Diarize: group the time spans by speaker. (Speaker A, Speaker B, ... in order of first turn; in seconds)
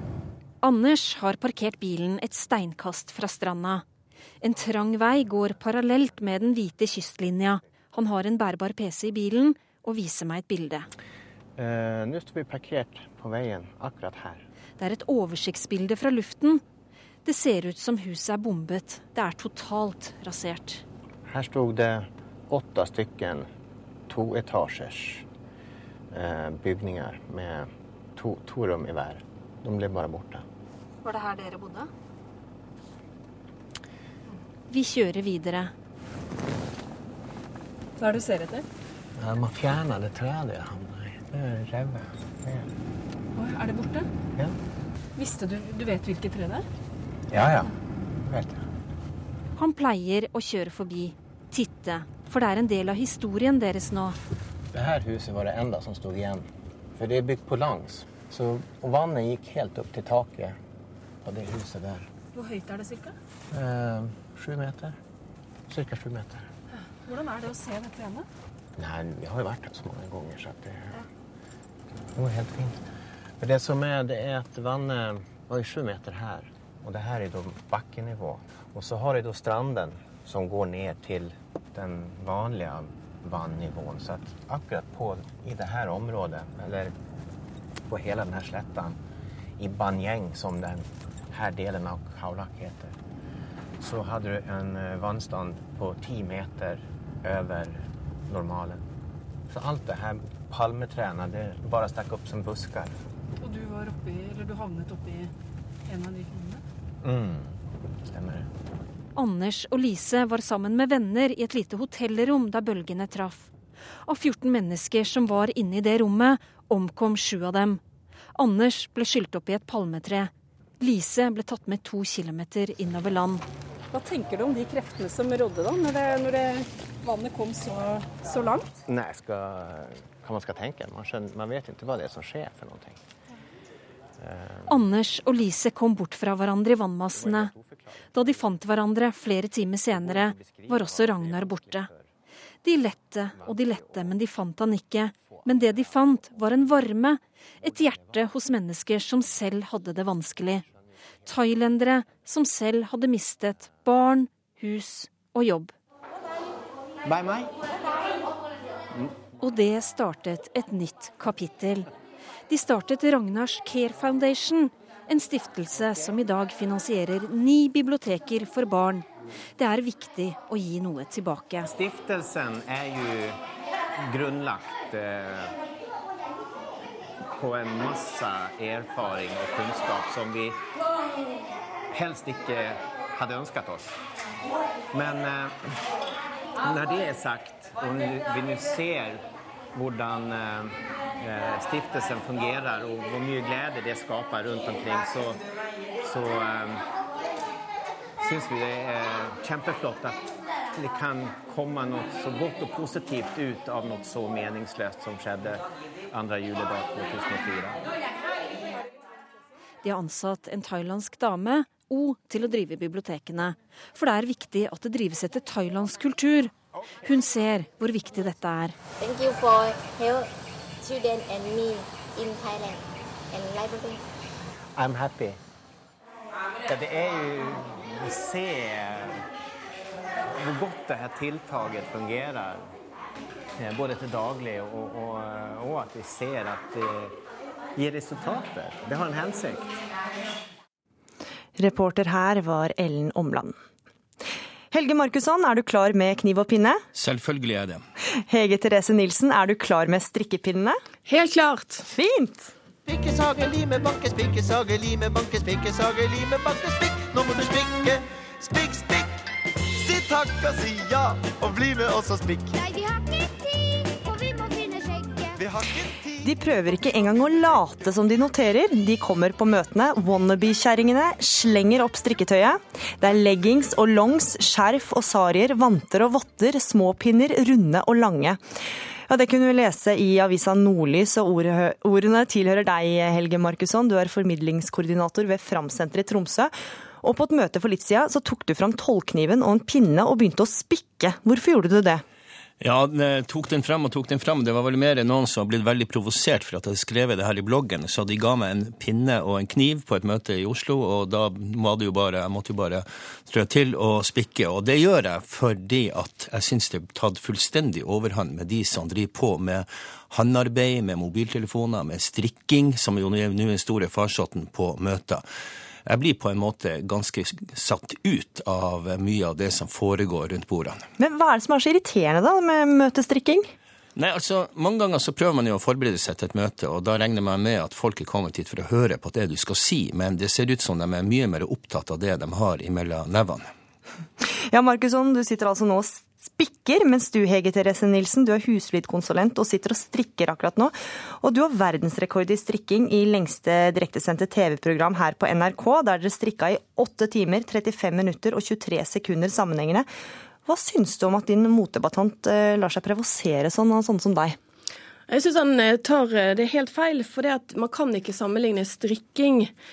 Speaker A: 0.6-3.8, 4.4-10.9, 14.8-16.6, 17.2-20.8, 34.7-35.7, 49.5-54.2, 109.2-113.5, 114.0-117.8, 118.3-123.4, 134.7-137.5, 138.1-141.9, 142.6-150.6, 151.2-155.7, 159.4-161.9, 162.5-169.1, 169.6-171.7, 209.8-216.5, 217.0-218.8
Speaker B: 11.6-14.4, 21.3-23.5, 24.1-25.2, 26.1-30.4, 39.2-42.7, 47.3-48.6, 54.7-56.5, 57.0-60.6, 61.2-62.1, 63.5-65.0, 65.7-66.5, 68.8-71.0, 72.1-72.8, 73.4-86.9, 87.9-89.0, 89.6-92.9, 93.8-98.8, 99.5-102.9, 107.0-108.5, 128.8-133.0, 134.2-134.8, 137.1-138.6, 139.9-142.1, 143.3-144.2, 145.1-146.8, 147.6-148.5, 150.6-151.4, 224.8-225.3
Speaker C: 31.0-31.9, 38.0-38.6, 43.4-44.1, 45.2-46.6, 62.3-63.1, 67.0-68.3, 103.4-105.3, 105.8-106.6, 123.9-128.7
Speaker D: 157.0-157.5, 171.6-173.4, 174.0-175.5, 177.3-180.6, 181.9-183.9, 184.9-185.6, 186.6-195.4, 196.0-196.8, 198.2-200.2, 200.7-207.8, 224.8-225.2, 226.7-229.2, 230.3-232.6, 233.6-237.1, 237.8-239.7
Speaker E: 219.0-220.3, 220.8-224.0, 264.2-265.2
Speaker F: 241.6-243.6, 244.7-246.8, 248.3-250.8, 251.9-252.5, 266.2-278.4, 279.1-292.0, 321.0-323.5, 334.2-349.9, 350.4-354.4
Speaker G: 246.9-247.8, 292.6-315.2, 315.9-320.8, 323.9-333.5
Speaker H: 251.1-251.8, 355.1-359.5
Speaker I: 252.8-259.1, 259.8-262.5, 265.4-266.2